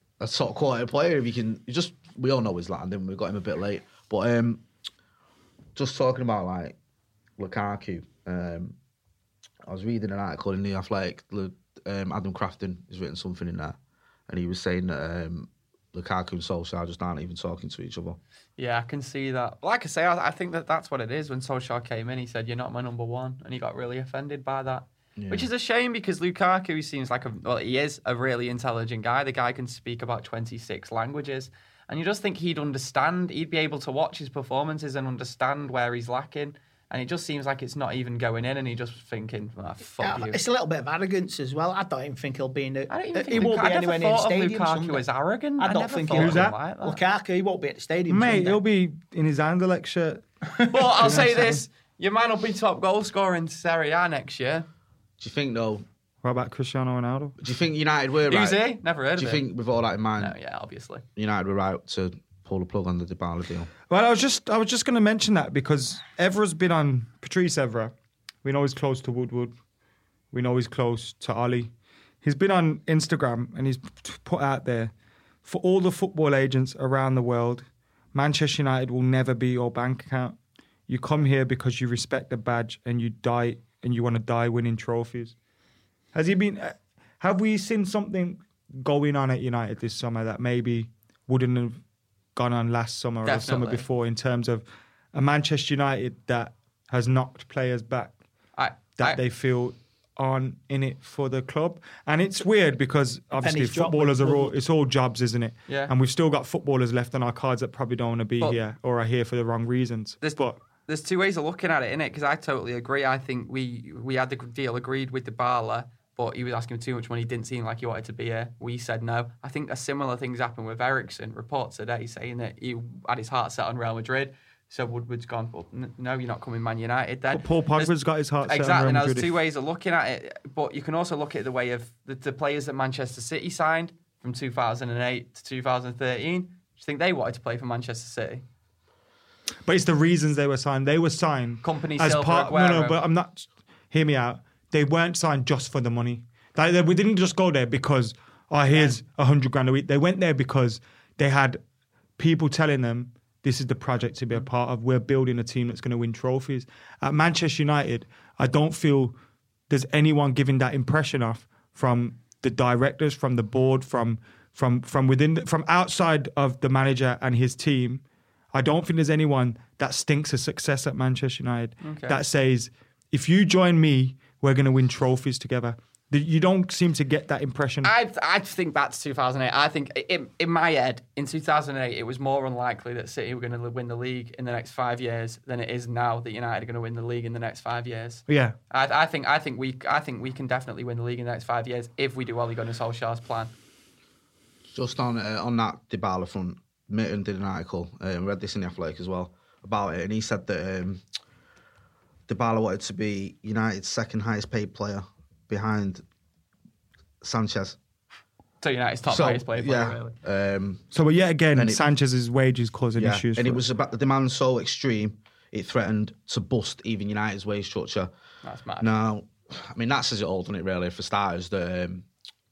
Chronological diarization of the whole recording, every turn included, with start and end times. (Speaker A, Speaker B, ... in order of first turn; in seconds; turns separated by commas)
Speaker A: 0.2-4.6, Speaker A: 5.8-6.8, Speaker A: 7.4-8.8, Speaker A: 9.7-13.8, Speaker A: 14.3-18.2, Speaker B: 18.6-40.4, Speaker A: 25.2-25.5, Speaker C: 40.0-45.0, Speaker B: 42.9-47.0, Speaker C: 45.6-48.6, Speaker D: 46.1-46.5, Speaker D: 48.1-50.2, Speaker B: 50.7-54.7, Speaker D: 50.9-51.6, Speaker A: 55.2-55.8, Speaker D: 56.2-57.4, Speaker A: 57.4-60.3, Speaker B: 58.3-59.4, Speaker B: 60.2-61.0, Speaker A: 61.1-63.7, Speaker D: 63.9-67.9, Speaker D: 68.4-69.5, Speaker D: 70.3-71.7, Speaker D: 72.2-74.9, Speaker D: 75.4-80.4, Speaker D: 80.9-85.3, Speaker D: 86.1-91.8, Speaker D: 92.3-98.1, Speaker B: 93.2-93.8, Speaker B: 98.6-99.2, Speaker D: 99.0-110.6, Speaker C: 103.4-104.5, Speaker B: 105.7-105.9, Speaker B: 110.2-127.9, Speaker D: 127.3-129.3, Speaker B: 128.4-138.4, Speaker D: 139.6-151.6, Speaker B: 141.6-143.0, Speaker B: 148.7-149.0, Speaker D: 152.2-159.2, Speaker D: 159.7-177.9, Speaker B: 171.8-172.2, Speaker B: 177.8-193.5, Speaker D: 188.3-188.5, Speaker A: 194.7-201.0, Speaker A: 202.3-206.0, Speaker A: 207.2-207.8, Speaker B: 208.6-210.2, Speaker A: 209.1-210.9, Speaker D: 210.9-213.6, Speaker A: 211.5-211.8, Speaker A: 213.0-218.1, Speaker B: 218.4-218.9, Speaker A: 218.8-222.1